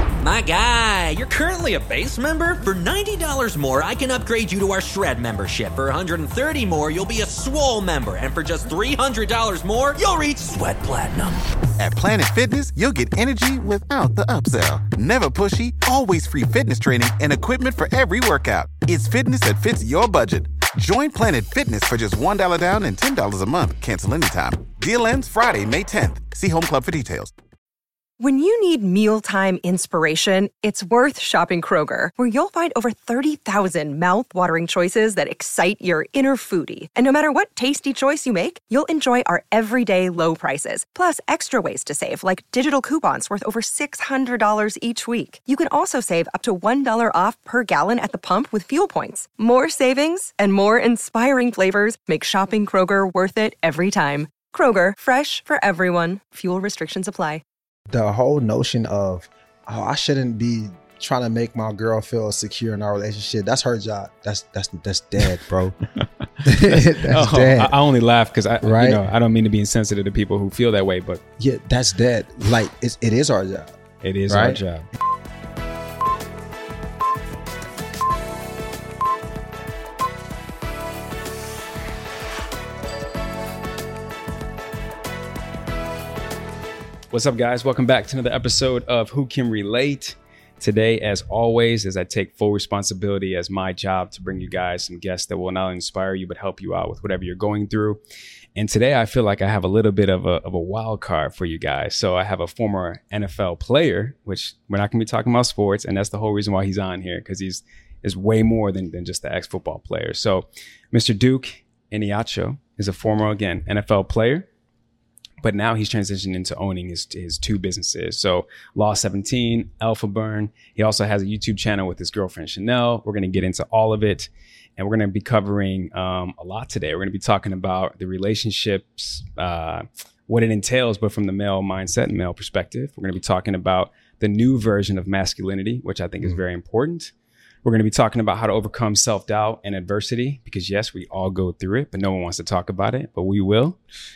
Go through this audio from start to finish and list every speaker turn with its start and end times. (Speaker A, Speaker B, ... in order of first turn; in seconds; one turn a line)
Speaker A: 0.2-11.4
Speaker B: 11.8-27.3
Speaker C: 28.2-57.4
Speaker D: 57.9-65.8
Speaker D: 66.4-67.8
Speaker E: 66.4-71.2
Speaker D: 68.6-69.0
Speaker D: 71.4-73.7
Speaker E: 74.0-74.9
Speaker D: 74.3-74.6
Speaker E: 87.1-98.0
Speaker E: 98.5-114.5
Speaker E: 115.4-137.1
Speaker E: 137.6-143.8